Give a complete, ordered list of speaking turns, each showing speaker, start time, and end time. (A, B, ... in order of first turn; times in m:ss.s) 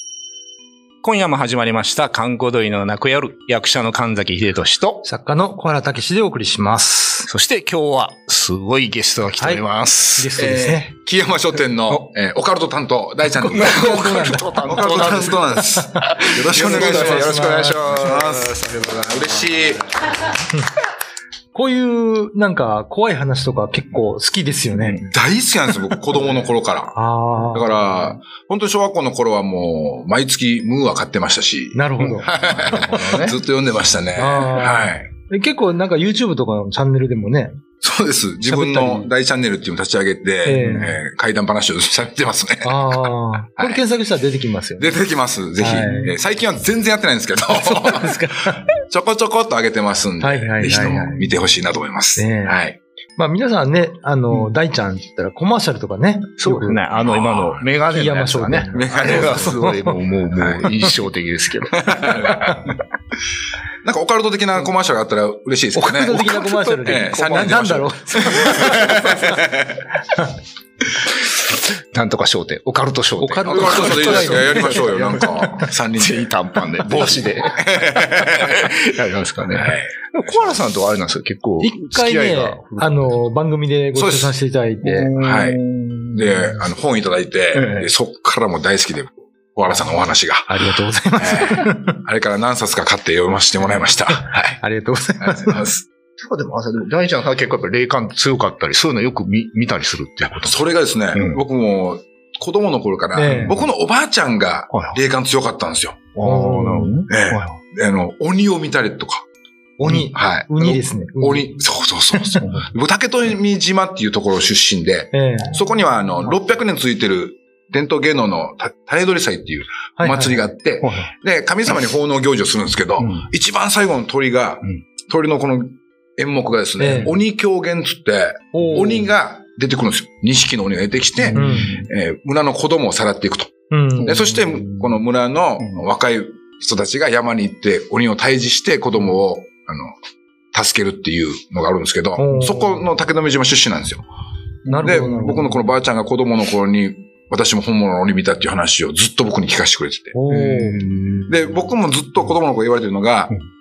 0:01.0-0:05.0 A
0:05.0-0:07.3 B
0:07.3-0:10.7 A
0:09.4-0:10.9 B
0:10.4-0:19.9 C
0:13.4-0:18.9 A
0:13.7-0:17.9 B
0:21.5-0:25.1 B
0:25.1-0:27.0 C
0:26.9-0:27.8 B
0:27.5-0:35.1 C
0:31.7-0:32.3 B
0:32.2-0:33.4 A
0:34.2-0:37.6 B
0:37.8-0:43.8 C
0:38.4-0:39.1 B
0:40.4-0:41.0 B
0:42.6-0:45.0 B
0:44.8-0:48.3 C
0:45.6-0:46.1 B
0:47.5-0:48.6 B
0:48.8-0:52.8 C
0:50.2-0:51.3 B
0:50.6-0:51.2 A
0:52.2-0:52.6 B
0:53.2-0:56.8 B
0:56.4-1:02.6 A
0:56.9-0:57.6 C
0:57.9-1:00.0 B
0:58.7-0:59.6 C
1:01.8-1:02.6 C
1:02.2-1:02.6 B
1:03.8-1:06.3 C
1:05.7-1:09.4 B
1:06.1-1:07.8 A
1:06.8-1:09.8 C
1:08.4-1:09.4 A
1:11.9-1:23.3 A
1:13.2-1:15.7 B
1:13.4-1:18.6 C
1:19.5-1:20.6 C
1:21.6-1:25.1 B
1:23.9-1:24.3 C
1:24.8-1:26.6 A
1:25.2-1:25.6 C
1:26.1-1:30.5 C
1:27.5-1:27.9 A
1:30.5-1:32.0 B
1:31.2-1:34.6 C
1:34.6-1:35.7 B
1:35.2-1:35.8 C
1:36.2-1:40.6 A
1:40.2-1:46.1 C
1:41.1-1:41.4 A
1:43.1-1:43.6 B
1:43.2-1:43.6 A
1:44.7-1:45.0 A
1:46.1-1:47.6 A
1:46.2-1:47.0 B
1:47.1-1:49.2 C
1:49.8-1:51.6 B
1:49.9-2:19.9 C
1:52.1-1:52.4 B
1:52.4-1:52.7 A
1:55.1-1:55.6 B
2:00.0-2:00.4 B
2:00.8-2:01.1 A
2:03.0-2:03.2 A
2:06.8-2:07.1 B
2:08.5-2:09.1 B
2:11.2-2:11.9 A
2:11.3-2:11.7 B
2:13.7-2:14.3 B
2:14.4-2:15.0 A
2:20.5-2:24.0 C
2:22.2-2:22.9 B
2:24.7-2:25.0 A
2:24.7-2:25.6 B
2:24.7-2:30.2 C
2:30.1-2:30.8 B
2:30.3-2:31.7 A
2:31.3-2:33.3 C